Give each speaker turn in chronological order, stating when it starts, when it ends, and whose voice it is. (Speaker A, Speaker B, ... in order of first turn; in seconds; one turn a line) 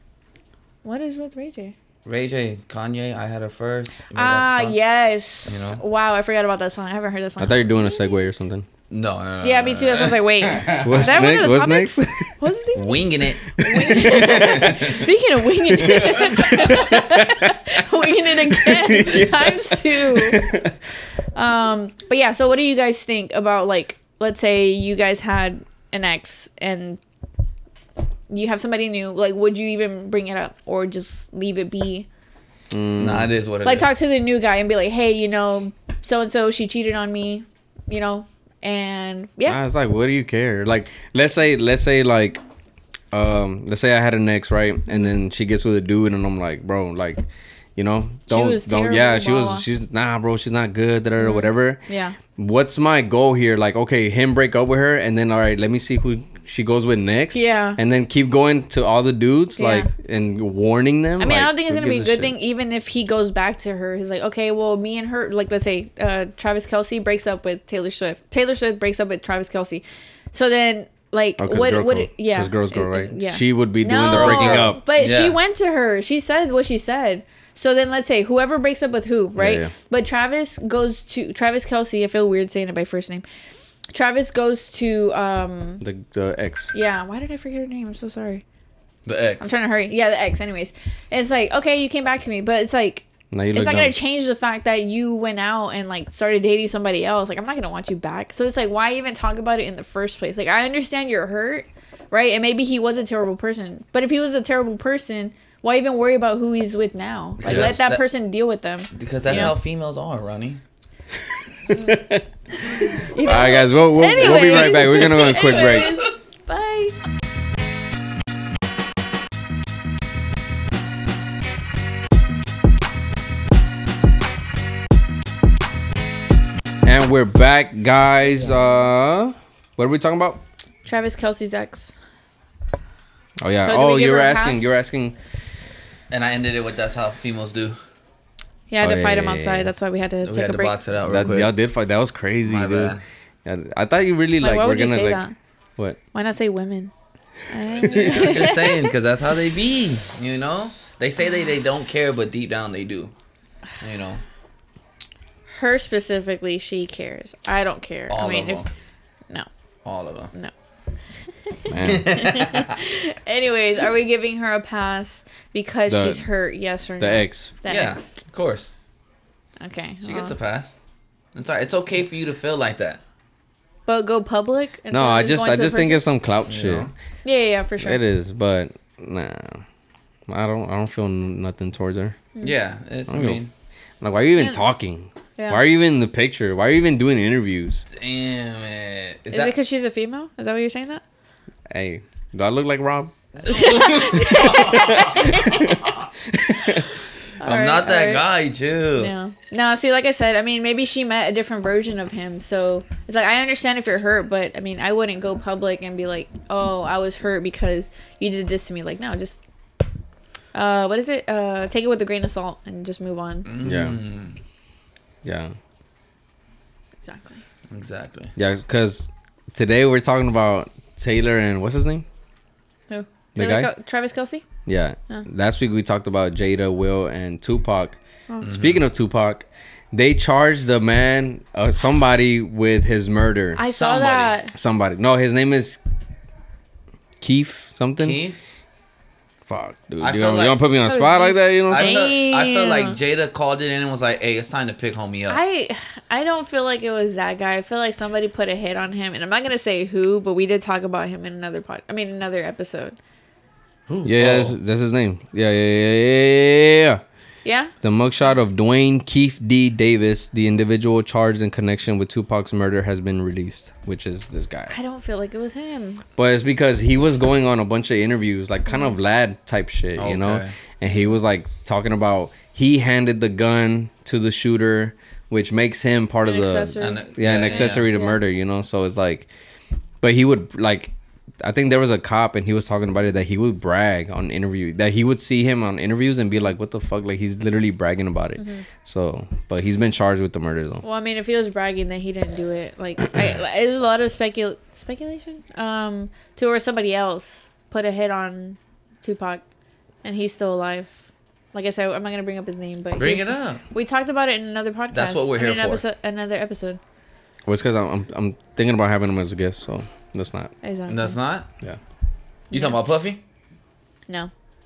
Speaker A: 0.8-1.7
Speaker B: 2.0-4.8
Speaker A: 4.1-8.2
Speaker B: 5.5-5.8
Speaker C: 7.4-8.7
Speaker B: 8.9-11.2
Speaker A: 9.4-20.6
Speaker C: 10.8-12.3
Speaker B: 12.7-15.1
Speaker C: 13.7-14.8
Speaker C: 15.8-17.5
Speaker B: 16.0-16.2
Speaker C: 18.4-20.7
Speaker A: 21.3-27.0
Speaker A: 28.3-32.1
Speaker C: 32.7-33.3
Speaker B: 33.0-33.9
Speaker A: 33.6-39.6
Speaker C: 39.5-42.4
Speaker C: 43.1-47.2
Speaker C: 47.8-51.8
Speaker A: 48.3-49.6
Speaker A: 51.2-52.2
Speaker C: 52.4-62.3
Speaker A: 57.3-57.8
Speaker A: 59.5-59.9
Speaker A: 61.2-83.2
Speaker C: 71.4-74.8
Speaker B: 74.0-75.4
Speaker C: 79.3-79.7
Speaker A: 83.9-85.8
Speaker C: 85.8-86.7
Speaker A: 86.7-88.4
Speaker B: 89.0-89.5
Speaker A: 89.4-109.5
Speaker C: 93.3-94.0
Speaker B: 107.4-108.0
Speaker C: 107.5-107.7
Speaker B: 108.9-110.6
Speaker C: 109.3-109.5
Speaker C: 111.7-112.2
Speaker A: 111.7-112.0
Speaker A: 112.8-117.0
Speaker C: 112.8-116.0
Speaker C: 126.8-130.4
Speaker A: 130.8-131.9
Speaker C: 133.4-135.2
Speaker A: 133.6-134.7
Speaker B: 136.1-137.8
Speaker A: 138.7-140.7
Speaker C: 138.8-139.7
Speaker B: 140.2-141.5
Speaker C: 141.0-145.2
Speaker B: 142.4-143.0
Speaker A: 144.4-145.3
Speaker A: 146.1-146.9
Speaker A: 147.5-148.9
Speaker B: 147.9-153.1
Speaker C: 147.9-148.3
Speaker B: 153.8-154.2
Speaker A: 155.5-158.7
Speaker B: 158.1-158.7
Speaker B: 159.8-160.3
Speaker A: 161.5-168.2
Speaker C: 161.7-162.1
Speaker B: 161.8-162.8
Speaker C: 165.9-166.2
Speaker C: 167.0-167.5
Speaker B: 167.7-168.7
Speaker A: 169.6-170.3
Speaker B: 170.0-170.8
Speaker B: 171.3-173.0
Speaker A: 173.9-176.0
Speaker C: 174.9-176.9
Speaker B: 176.5-176.9
Speaker A: 177.2-178.0
Speaker C: 177.8-179.6
Speaker C: 180.3-182.2
Speaker B: 182.4-183.5
Speaker C: 183.1-183.4
Speaker C: 184.0-187.8
Speaker A: 184.4-184.6
Speaker B: 187.9-189.5
Speaker A: 189.3-191.0
Speaker C: 191.7-193.1
Speaker A: 193.4-195.9
Speaker B: 193.4-196.0
Speaker C: 194.7-195.6
Speaker C: 196.3-196.8
Speaker A: 196.6-198.2
Speaker B: 197.4-199.1
Speaker A: 199.0-209.4
Speaker A: 210.5-213.5
Speaker B: 213.4-214.3
Speaker C: 213.6-214.0
Speaker C: 215.2-215.5
Speaker A: 217.0-217.4
Speaker B: 217.7-218.3
Speaker C: 218.3-222.0
Speaker A: 222.9-224.4
Speaker C: 223.3-223.7
Speaker C: 224.7-233.6
Speaker B: 228.4-228.8
Speaker A: 233.6-234.5
Speaker B: 233.7-234.3
Speaker C: 234.5-235.8
Speaker C: 237.2-238.2
Speaker B: 238.0-238.4
Speaker C: 239.5-242.0
Speaker B: 240.0-240.6
Speaker A: 240.8-242.9
Speaker B: 241.7-245.4
Speaker A: 245.3-253.0
Speaker B: 253.9-254.6
Speaker C: 254.0-257.0
Speaker A: 257.4-257.7
Speaker C: 257.8-264.7
Speaker A: 264.7-266.0
Speaker C: 266.2-279.3
Speaker B: 270.0-270.5
Speaker A: 276.2-278.2
Speaker B: 276.8-277.9
Speaker C: 280.0-290.8
Speaker A: 288.4-288.6
Speaker A: 290.8-299.4
Speaker A: 300.0-301.0
Speaker A: 301.5-306.8
Speaker B: 303.0-303.6
Speaker B: 304.9-305.8
Speaker C: 307.4-310.5
Speaker A: 310.6-311.2
Speaker B: 310.9-311.5
Speaker A: 312.5-312.8
Speaker B: 312.5-313.2